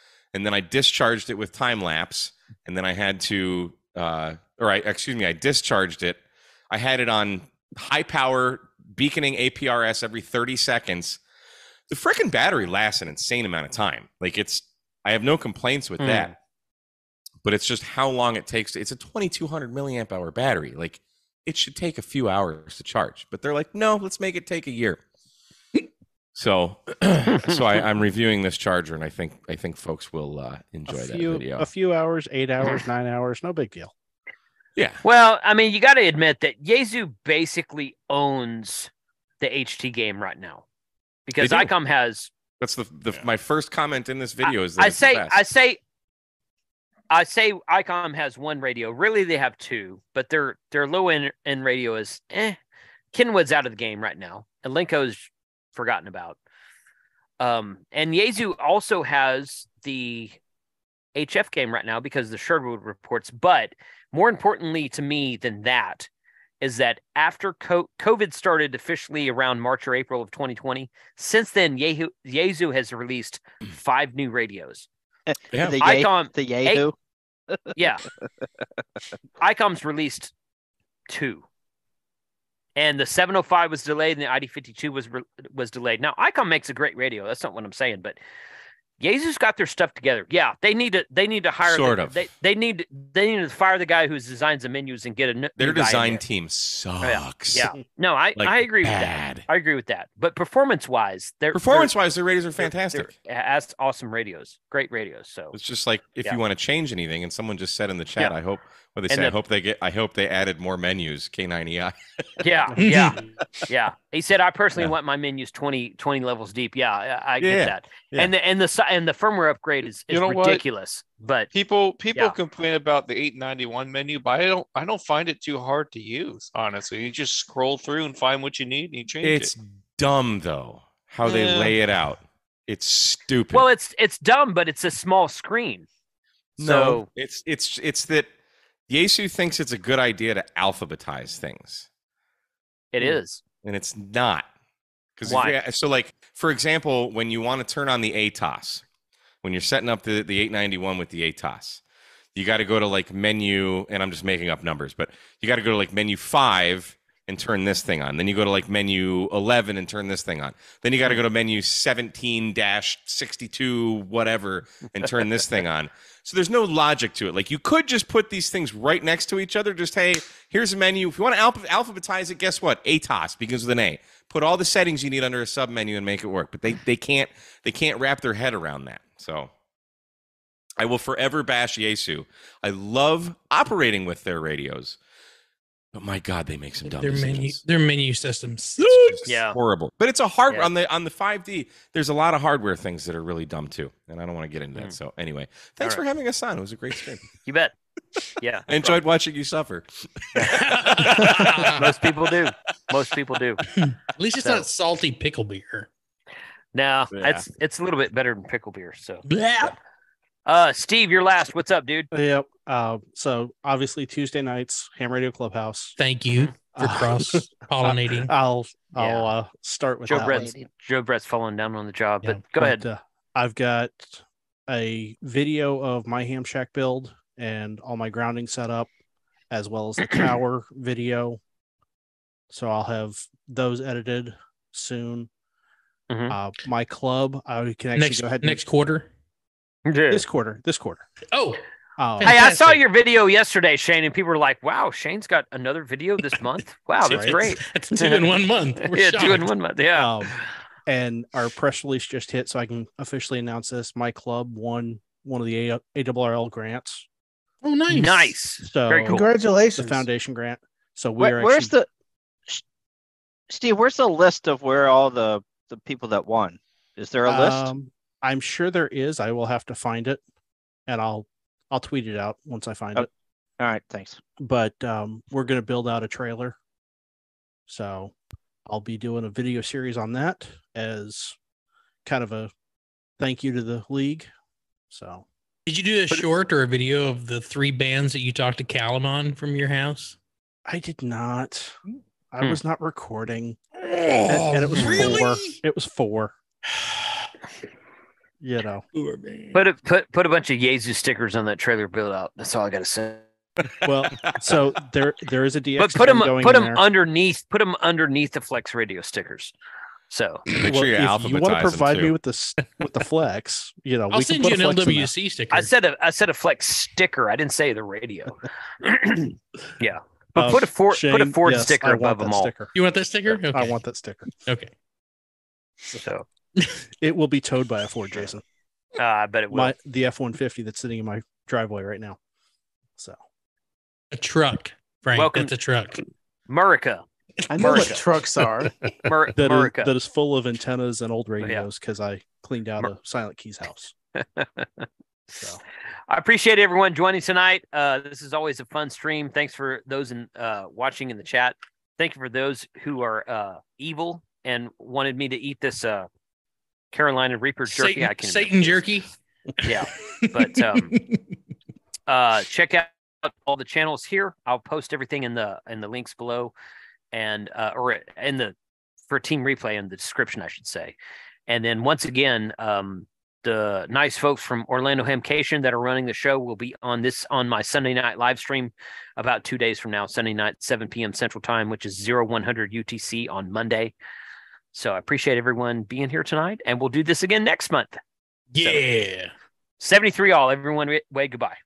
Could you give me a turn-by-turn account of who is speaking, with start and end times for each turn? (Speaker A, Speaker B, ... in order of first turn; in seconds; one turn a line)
Speaker A: 0.3-11.2
Speaker A: 11.9-16.3
Speaker B: 16.0-16.3
Speaker A: 17.4-25.0
Speaker A: 26.4-31.7
Speaker B: 27.3-27.8
Speaker C: 30.9-33.9
Speaker A: 34.8-35.0
Speaker B: 35.0-40.6
Speaker B: 41.3-42.3
Speaker A: 41.4-41.7
Speaker A: 42.6-45.4
Speaker B: 44.5-45.8
Speaker B: 47.1-52.6
Speaker B: 53.1-56.4
Speaker B: 57.4-60.4
Speaker B: 61.2-66.1
Speaker B: 66.6-74.9
Speaker D: 75.3-76.9
Speaker B: 75.8-76.9
Speaker B: 77.8-78.0
Speaker B: 79.4-80.3
Speaker B: 81.1-81.4
Speaker B: 82.8-88.2
Speaker B: 89.0-96.2
Speaker A: 91.6-92.2
Speaker A: 95.6-97.7
Speaker B: 97.0-101.9
Speaker A: 98.4-99.5
Speaker A: 101.5-103.1
Speaker B: 102.6-105.6
Speaker A: 105.5-112.2
Speaker B: 109.1-109.4
Speaker B: 112.4-121.5
Speaker E: 112.8-113.2
Speaker A: 117.4-118.3
Speaker F: 120.1-120.6
Speaker F: 121.5-129.5
Speaker A: 129.2-133.7
Speaker F: 131.2-131.8
Speaker B: 133.5-135.9
Speaker B: 136.6-137.1
Speaker A: 136.6-138.3
Speaker A: 138.9-141.9
Speaker B: 142.9-143.4
Speaker A: 143.0-144.5
Speaker A: 145.2-148.8
Speaker B: 145.2-145.6
Speaker A: 149.4-151.8
Speaker A: 152.4-179.5
Speaker A: 180.8-185.0
Speaker A: 185.9-187.6
Speaker E: 186.8-189.2
Speaker A: 188.8-197.3
Speaker B: 189.3-189.6
Speaker B: 197.4-197.7
Speaker B: 198.4-199.0
Speaker A: 198.7-201.8
Speaker B: 200.3-203.6
Speaker E: 200.4-201.5
Speaker E: 203.7-205.9
Speaker B: 206.7-209.2
Speaker A: 207.1-207.4
Speaker E: 209.3-209.8
Speaker B: 210.5-212.1
Speaker C: 212.1-216.0
Speaker E: 216.0-218.3
Speaker C: 216.6-220.6
Speaker B: 218.9-219.3
Speaker B: 220.1-222.8
Speaker C: 222.5-228.9
Speaker C: 229.5-231.4
Speaker C: 232.5-235.3
Speaker B: 236.1-236.4
Speaker C: 236.3-238.6
Speaker E: 237.9-239.1
Speaker B: 239.9-240.2
Speaker C: 240.1-241.1
Speaker E: 241.3-241.6
Speaker C: 242.0-242.4
Speaker E: 242.2-242.8
Speaker B: 242.2-250.4
Speaker E: 247.1-249.5
Speaker C: 247.1-247.4
Speaker C: 249.9-250.3
Speaker C: 250.9-257.1
Speaker E: 257.6-258.4
Speaker B: 257.9-259.2
Speaker C: 258.6-261.8
Speaker G: 259.1-260.1
Speaker D: 261.2-261.9
Speaker D: 263.5-267.7
Speaker C: 267.3-270.2
Speaker C: 270.9-273.1
Speaker D: 273.6-274.2
Speaker C: 274.4-276.6
Speaker C: 277.7-278.1
Speaker C: 278.7-281.4
Speaker C: 282.1-282.5
Speaker C: 283.2-284.3
Speaker C: 284.9-285.2
Speaker E: 285.7-290.2
Speaker C: 290.7-291.8
Speaker C: 292.3-293.6
Speaker E: 294.3-295.6
Speaker C: 294.3-296.3
Speaker B: 294.8-295.1
Speaker C: 298.4-298.9
Speaker B: 299.5-303.2
Speaker C: 303.8-306.8
Speaker B: 305.8-309.5
Speaker B: 310.1-310.4
Speaker A: 310.5-312.1
Speaker C: 310.5-315.1
Speaker E: 314.1-315.7
Speaker B: 315.5-322.5
Speaker C: 320.4-322.8
Speaker E: 322.7-323.8
Speaker C: 323.3-324.3
Speaker E: 324.4-324.7
Speaker B: 326.0-326.3
Speaker C: 327.0-328.4
Speaker B: 329.0-329.7
Speaker C: 329.5-332.2
Speaker E: 334.1-336.0
Speaker B: 335.1-335.5
Speaker B: 336.5-337.1
Speaker G: 337.5-338.7
Speaker E: 337.6-337.9
Speaker B: 337.6-338.0
Speaker B: 339.1-339.9
Speaker C: 339.4-343.9
Speaker B: 341.4-341.7
Speaker B: 344.2-344.9
Speaker B: 346.1-356.1
Speaker B: 356.9-358.8
Speaker E: 357.7-359.1
Speaker B: 359.6-361.0
Speaker E: 359.6-361.2
Speaker B: 362.1-366.5
Speaker B: 367.1-368.6
Speaker B: 369.1-371.0
Speaker B: 371.5-383.9
Speaker B: 384.7-388.0
Speaker E: 388.5-389.3
Speaker B: 389.8-391.6